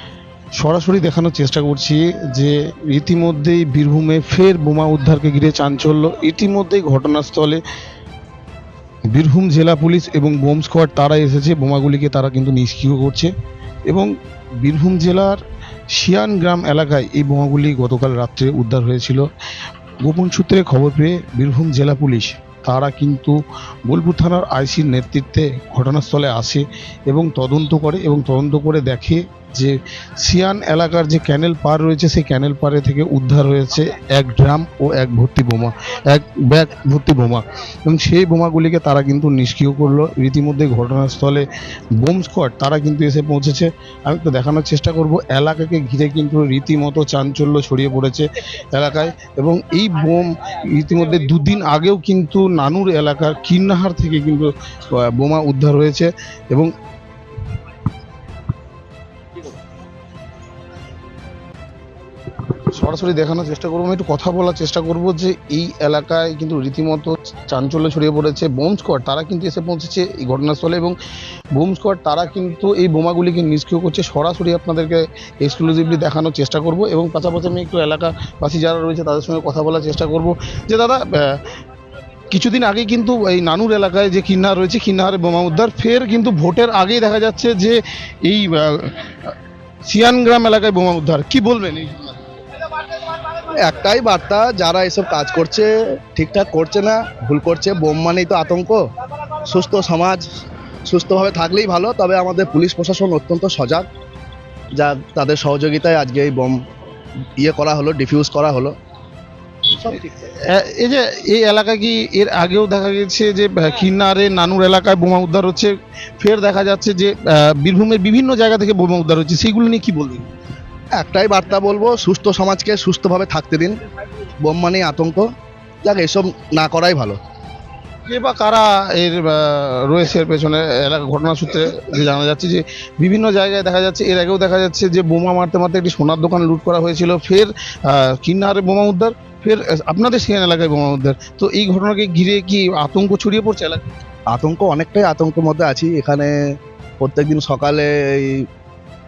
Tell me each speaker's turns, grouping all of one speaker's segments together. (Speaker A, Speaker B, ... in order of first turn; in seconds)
Speaker A: 0.6-7.6, 9.1-13.3, 14.6-15.4, 15.9-19.3, 20.0-41.5, 42.0-56.7, 62.7-71.0, 71.5-81.4, 82.3-89.3, 89.9-92.2, 109.7-120.3, 128.1-143.8
Speaker B: 93.4-98.8, 99.5-100.2, 100.9-103.9, 104.8-106.6, 107.4-108.7, 121.0-123.8, 124.4-125.3, 125.8-127.2, 144.3-146.3, 147.0-148.5